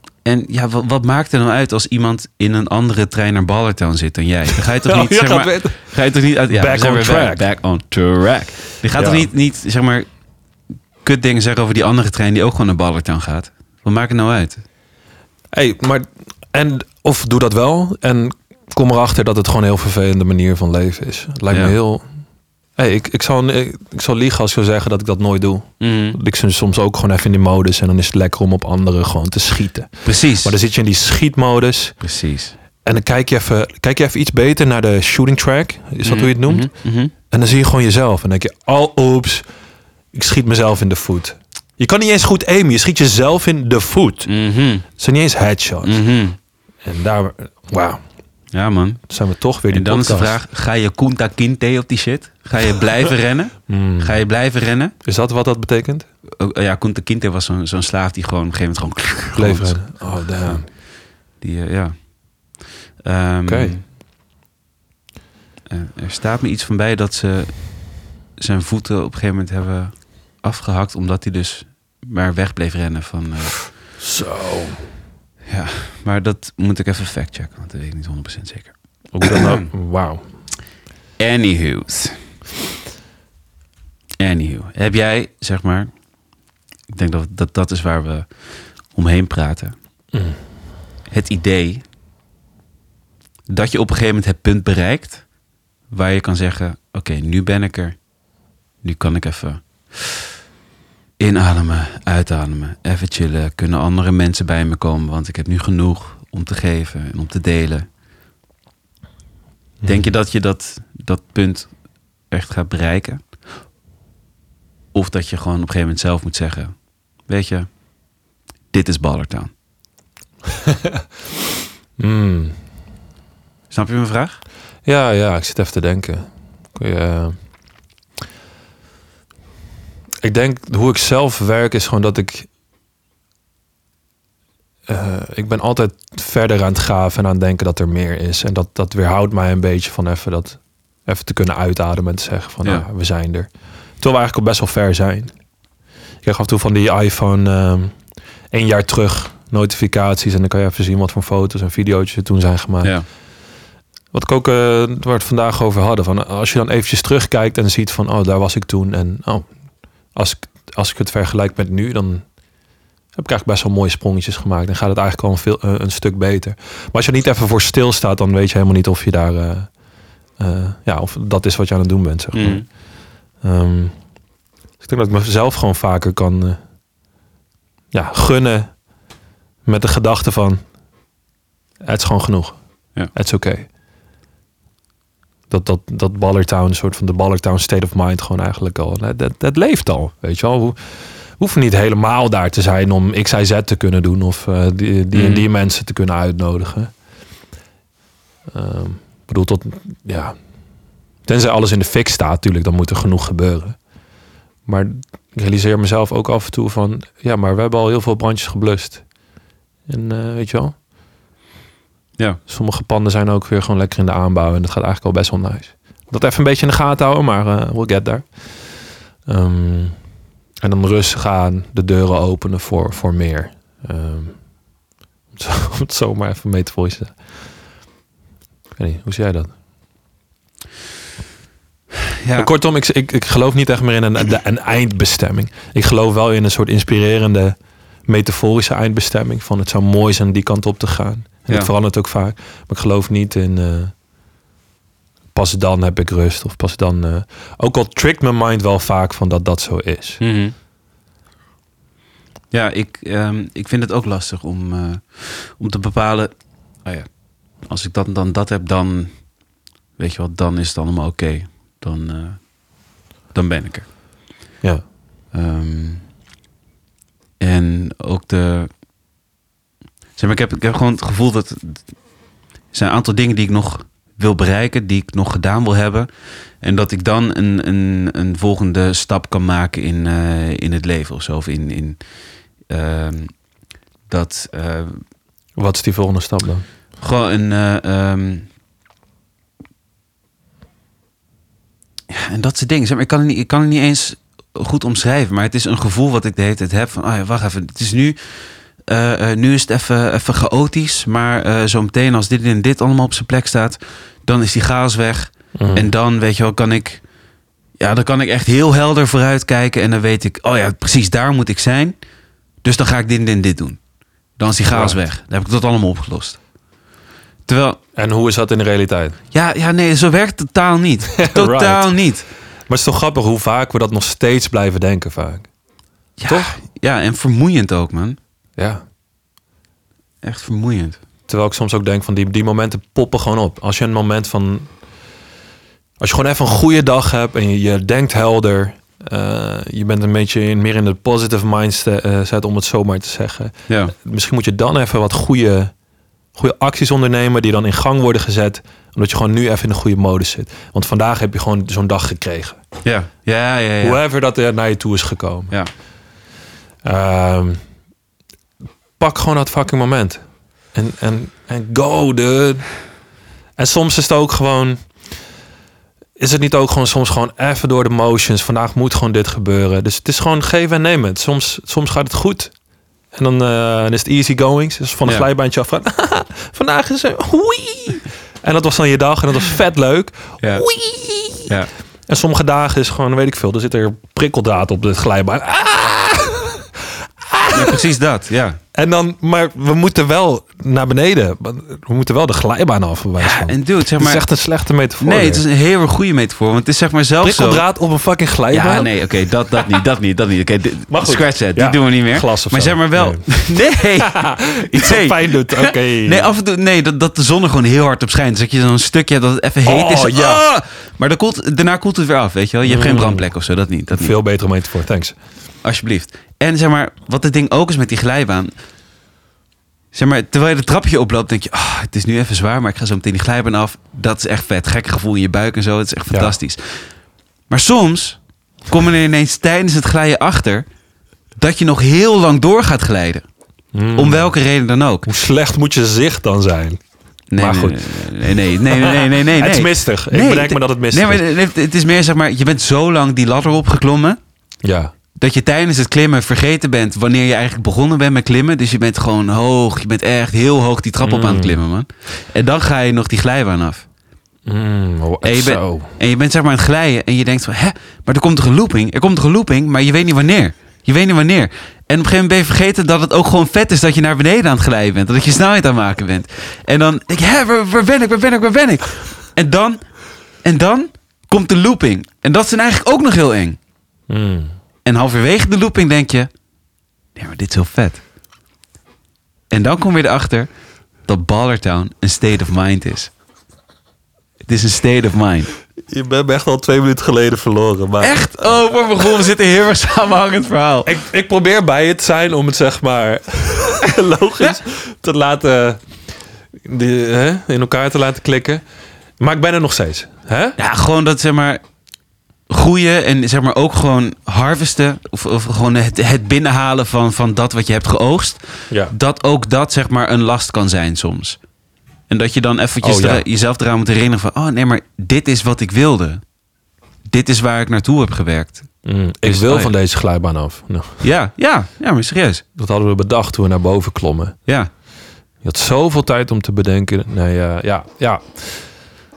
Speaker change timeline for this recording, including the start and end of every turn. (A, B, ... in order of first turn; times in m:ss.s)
0:00.2-0:10.1 A
0:04.8-0:05.8 B
0:06.5-0:07.4 B
0:09.0-0:09.3 B
0:11.0-0:14.6 A
0:15.5-0:22.0 B
0:22.8-0:32.0 B
0:25.8-0:26.2 A
0:30.0-0:30.5 A
0:32.0-0:32.5 A
0:32.8-0:36.7 B
0:36.0-0:37.1 A
0:37.3-0:39.4 B
0:40.1-0:44.3 B
0:44.2-0:44.8 A
0:45.0-0:46.0 B
0:45.8-0:46.4 A
0:46.8-0:48.0 B
0:48.5-0:49.0 A
0:49.1-0:50.4 B
0:49.7-0:54.9 A
0:53.7-0:54.2 B
0:55.0-0:56.1 B
0:56.4-1:00.7 A
0:59.3-1:00.6 B
1:01.4-1:02.1 A
1:03.0-1:03.8 A
1:03.4-1:03.8 B
1:05.7-1:07.7 A
1:08.4-1:13.6 A
1:14.0-1:14.8 B
1:15.5-1:19.7 A
1:19.1-1:20.2 B
1:21.2-1:22.2 A
1:24.2-1:25.9 A
1:26.9-1:28.3 A
1:28.9-1:29.7 A
1:30.1-1:30.4 B
1:31.1-1:31.8 A
1:33.5-1:35.2 A
1:35.9-1:38.0 A
1:38.8-1:40.3 A
1:41.2-1:47.8 A
1:49.8-1:51.7 A
1:52.3-1:53.2 A
1:54.9-1:56.7 A
1:57.3-1:57.7 A
1:58.7-1:59.5 A
2:00.6-2:00.9 B
2:02.0-2:02.6 B
2:03.7-2:04.4 A
2:04.8-2:07.4 B
2:10.2-2:12.5 B
2:14.9-2:25.3 B
2:26.2-2:28.0 B
2:28.5-2:32.9 B
2:34.1-2:39.5 B
2:40.1-2:42.2 B
2:43.2-2:49.7 B
2:50.4-2:52.7 B
2:52.3-2:52.6 A
2:53.4-2:54.0 B
2:54.8-2:56.6 B
2:57.9-2:58.8 B
2:59.6-3:00.6 B
3:01.8-3:03.7 B
3:05.5-3:10.8 B
3:11.4-3:16.9 B
3:15.1-3:15.4 A
3:18.5-3:20.4 B
3:21.2-3:23.8 B
3:24.6-3:29.0 B
3:29.9-3:30.8 B
3:32.5-3:38.4 B
3:39.2-3:40.0 B
3:40.6-3:44.4 B
3:45.3-3:47.2 B
3:48.8-3:49.5 B
3:52.2-3:52.5 A
3:52.4-3:57.6 B
3:58.1-4:03.9 B
4:05.3-4:10.2 B
4:10.2-4:10.5 A
4:12.5-4:16.3 A
4:16.8-4:17.1 A
4:17.6-4:19.1 A
4:20.0-4:22.5 A
4:23.3-4:23.9 A
4:25.3-4:26.0 A
4:27.4-4:28.7 A
4:30.2-4:31.8 A
4:32.7-4:36.1 A
4:36.6-4:42.0 A
4:42.7-4:43.3 A
4:44.1-4:45.0 A
4:45.6-4:46.6 B
4:47.0-4:48.4 A
4:52.1-4:58.2 A
4:58.8-5:07.0 A
5:05.6-5:05.9 B
5:07.8-5:11.9 A
5:12.6-5:13.8 A
5:14.4-5:16.4 A
5:14.7-5:15.0 B
5:17.5-5:17.8 A
5:18.0-5:19.2 B
5:19.3-5:22.2 A
5:21.2-5:21.9 B
5:22.7-5:25.5 B
5:26.2-5:28.2 A
5:26.3-5:26.6 B
5:30.2-5:31.0 A
5:31.3-5:34.7 B
5:36.0-5:45.7 B
5:46.3-5:52.6 B
5:52.8-5:54.0 A
5:53.8-5:55.5 B
5:56.8-5:57.6 B
5:59.0-6:00.2 B
6:00.7-6:02.7 B
6:03.6-6:04.8 B
6:06.2-6:12.5 B
6:13.1-6:21.5 B
6:20.4-6:20.6 A
6:22.1-6:26.7 B
6:27.3-6:27.8 B
6:27.5-6:28.6 A
6:28.7-6:35.4 B
6:33.2-6:34.2 A
6:35.0-6:37.6 A
6:37.2-6:38.9 B
6:38.5-6:54.1 A
6:40.9-6:43.5 B
6:44.0-6:46.3 B
6:49.6-6:50.4 B
6:52.6-6:53.3 B
6:53.9-6:55.2 B
6:55.6-6:58.5 A
6:59.9-7:06.8 A
7:07.5-7:10.6 A
7:11.4-7:13.2 A
7:13.7-7:14.3 B
7:13.9-7:15.1 A
7:15.0-7:16.8 B
7:17.3-7:24.2 A
7:17.4-7:21.3 B
7:24.6-7:24.9 B
7:25.1-7:33.8 A
7:31.0-7:31.6 B
7:34.4-7:35.9 B
7:35.2-7:49.8 A
7:50.4-7:53.6 A
7:54.1-7:54.5 B
7:54.8-7:56.3 A
7:57.2-7:58.0 A
7:59.5-8:00.5 A
8:01.1-8:03.1 A
8:04.4-8:05.5 A
8:05.9-8:08.6 B
8:08.0-8:10.9 A
8:10.8-8:15.8 B
8:16.6-8:18.6 B
8:19.2-8:20.6 B
8:20.6-8:21.6 A
8:22.5-8:31.4 A
8:32.1-8:36.2 A
8:32.8-8:33.2 B
8:37.1-8:38.7 A
8:38.8-8:41.0 B
8:39.2-8:39.7 A
8:41.0-8:42.4 A
8:42.6-8:44.4 B
8:45.4-8:48.7 B